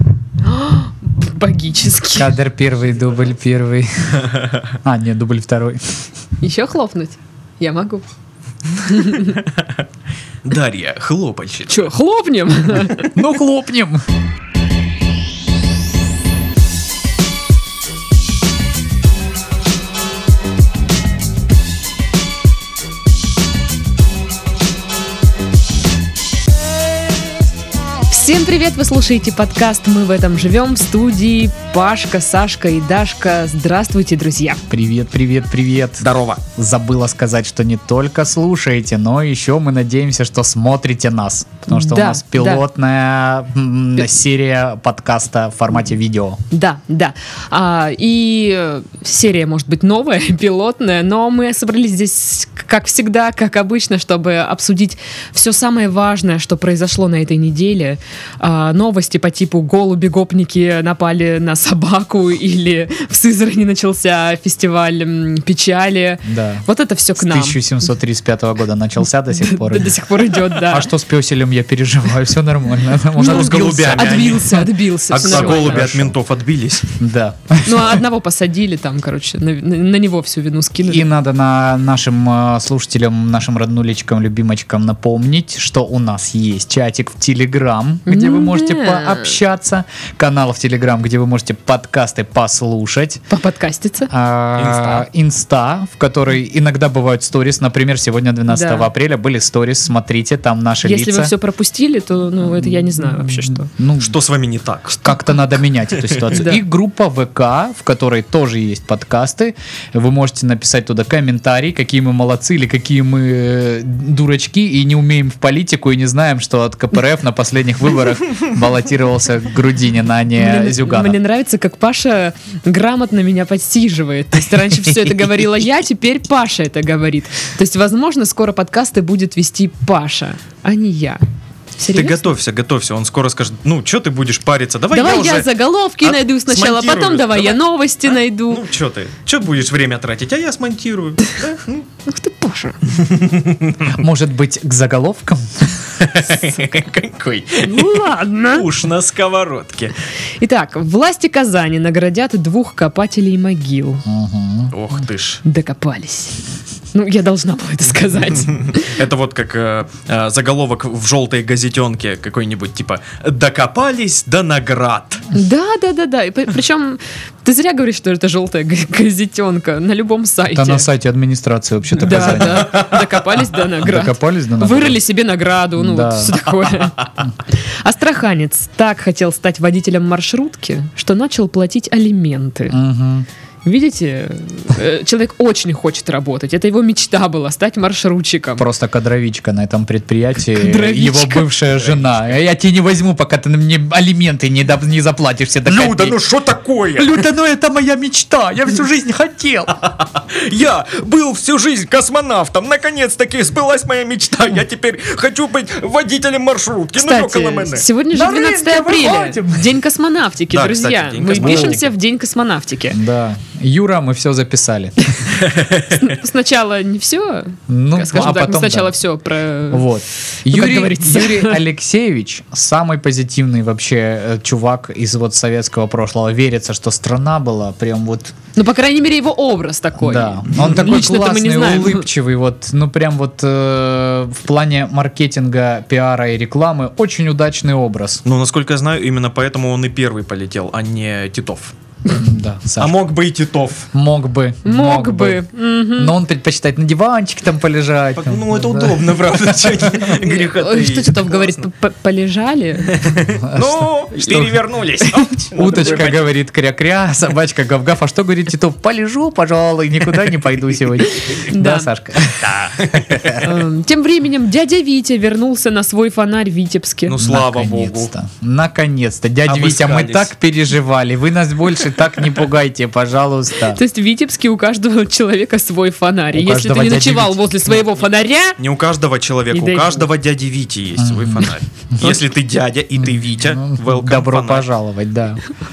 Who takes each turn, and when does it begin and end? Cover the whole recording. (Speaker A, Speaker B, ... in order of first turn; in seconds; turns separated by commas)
Speaker A: 0.4-2.3, Speaker B: 2.2-4.3, Speaker C: 4.2-4.6, Speaker B: 4.8-5.8, Speaker A: 6.4-8.1, Speaker A: 8.7-9.4, Speaker C: 10.4-11.9, Speaker A: 11.7-13.2, Speaker B: 13.2-14.0, Speaker A: 28.1-34.6, Speaker B: 34.7-46.4, Speaker C: 36.0-36.4, Speaker A: 41.7-42.6, Speaker A: 46.5-67.6, Speaker B: 66.2-66.7, Speaker B: 67.2-70.0, Speaker A: 69.3-70.9, Speaker B: 70.6-74.7, Speaker A: 73.2-75.9, Speaker C: 73.2-77.0, Speaker B: 75.2-76.2, Speaker B: 77.0-78.0, Speaker A: 77.6-81.1, Speaker B: 80.8-93.2, Speaker A: 88.1-89.4, Speaker A: 93.3-94.1, Speaker B: 94.1-101.3, Speaker C: 94.6-95.1, Speaker A: 98.5-98.9, Speaker A: 100.8-103.7, Speaker B: 102.6-104.2, Speaker C: 104.0-105.3, Speaker B: 105.0-121.2, Speaker C: 105.9-106.4, Speaker A: 106.3-106.6, Speaker A: 120.4-131.2, Speaker A: 131.8-132.3, Speaker C: 131.9-135.5, Speaker A: 134.9-138.7, Speaker C: 136.0-141.9, Speaker A: 142.1-142.8, Speaker C: 142.9-144.0, Speaker B: 143.9-146.0, Speaker C: 146.0-149.9, Speaker A: 147.6-148.7, Speaker A: 150.4-154.0, Speaker B: 154.1-154.7, Speaker C: 154.7-155.4, Speaker A: 155.4-156.4, Speaker A: 156.9-159.0, Speaker C: 158.5-165.2, Speaker A: 165.3-170.9, Speaker B: 170.5-172.8, Speaker A: 172.0-182.8, Speaker C: 172.0-173.0, Speaker B: 173.8-175.0, Speaker B: 175.8-176.4, Speaker B: 182.7-183.3, Speaker A: 183.7-188.7, Speaker B: 188.6-196.2, Speaker A: 190.5-191.5, Speaker C: 191.7-192.4, Speaker C: 195.7-197.1, Speaker B: 197.0-199.8, Speaker C: 200.2-207.9, Speaker A: 207.0-213.0, Speaker B: 208.1-209.8, Speaker C: 210.5-211.9, Speaker B: 211.3-211.8, Speaker B: 212.9-215.1, Speaker C: 215.3-216.2, Speaker A: 216.0-221.6, Speaker B: 217.7-218.9, Speaker B: 219.7-228.3, Speaker A: 228.6-232.1, Speaker B: 230.0-238.2, Speaker C: 238.2-241.8, Speaker B: 242.1-243.0, Speaker C: 242.8-243.9, Speaker B: 243.9-245.4, Speaker A: 244.7-246.2, Speaker B: 246.0-250.1, Speaker C: 248.2-251.6, Speaker A: 250.1-253.0, Speaker C: 252.9-256.3, Speaker B: 253.5-254.5, Speaker B: 255.5-263.6, Speaker A: 261.3-261.9, Speaker C: 262.4-263.4, Speaker A: 263.4-267.2, Speaker C: 267.1-268.1, Speaker B: 267.2-273.8, Speaker C: 269.5-270.3, Speaker A: 273.7-278.6, Speaker B: 276.3-277.9, Speaker C: 278.6-284.7, Speaker A: 279.5-280.1, Speaker B: 281.0-282.2, Speaker B: 283.0-285.4